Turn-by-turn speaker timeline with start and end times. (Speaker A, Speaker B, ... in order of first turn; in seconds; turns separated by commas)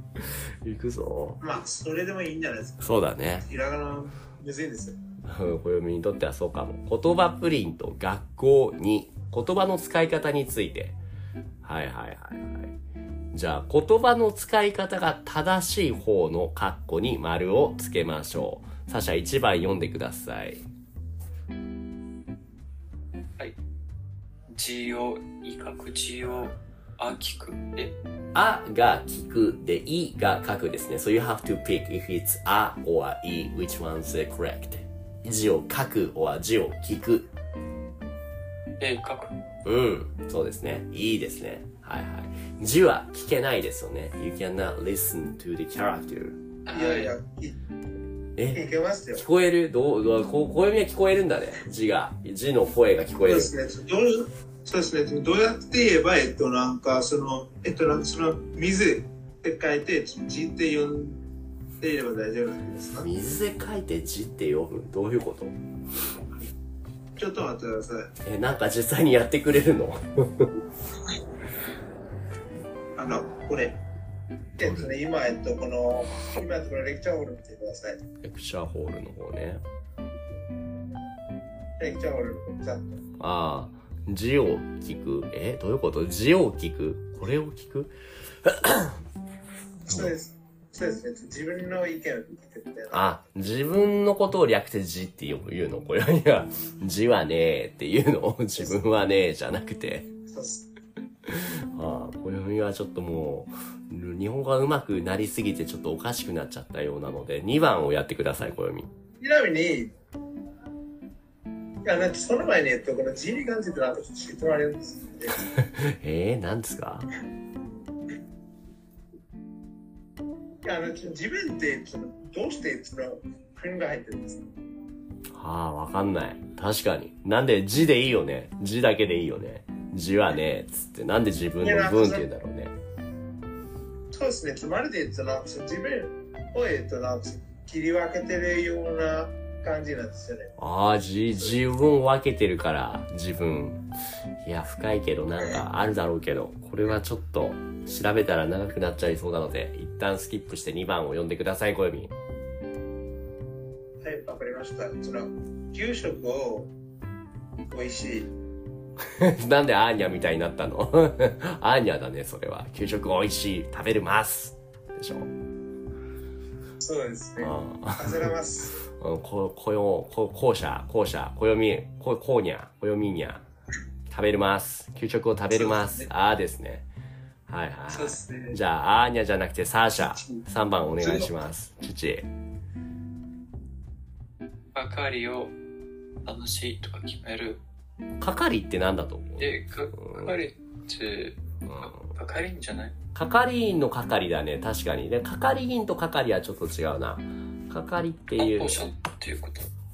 Speaker A: 0.2-1.4, Speaker B: 1.4-5.0, Speaker A: 2.8-3.5, Speaker A: 5.2-10.9, Speaker A: 11.6-12.7, Speaker A: 13.3-20.6, Speaker C: 24.5-27.9, Speaker A: 28.3-37.3, Speaker C: 38.8-39.4, Speaker A: 39.6-46.4, Speaker C: 46.6-47.1, Speaker B: 46.7-47.6, Speaker A: 48.4-48.6, Speaker B: 48.5-49.2, Speaker A: 49.1-53.5, Speaker B: 53.2-61.2, Speaker B: 61.8-63.0, Speaker A: 63.0-65.6, Speaker B: 67.2-68.1, Speaker A: 68.2-70.5, Speaker B: 73.0-73.8, Speaker B: 74.6-78.0, Speaker A: 74.6-74.9, Speaker A: 78.2-79.6, Speaker B: 81.8-83.0, Speaker A: 83.2-89.0, Speaker B: 89.8-93.1, Speaker A: 89.9-90.1, Speaker A: 92.9-100.1, Speaker B: 100.3-100.7, Speaker A: 101.2-108.9, Speaker B: 109.2-109.9, Speaker B: 111.8-115.4, Speaker A: 115.5-117.1, Speaker B: 120.6-124.5, Speaker A: 125.3-132.7, Speaker B: 131.6-132.3, Speaker B: 134.1-140.5, Speaker A: 140.6-143.8, Speaker A: 144.4-152.1, Speaker B: 154.0-156.7, Speaker B: 157.7-158.3, Speaker A: 159.0-165.3, Speaker B: 166.8-168.8, Speaker A: 167.4-173.4, Speaker A: 174.1-176.8, Speaker B: 175.5-176.1, Speaker A: 177.5-182.3, Speaker B: 177.9-178.6, Speaker B: 180.0-181.3, Speaker C: 184.7-185.5, Speaker C: 186.2-187.6, Speaker A: 188.2-190.4, Speaker C: 189.4-192.9, Speaker A: 191.6-192.1, Speaker A: 193.1-198.8, Speaker C: 198.4-199.7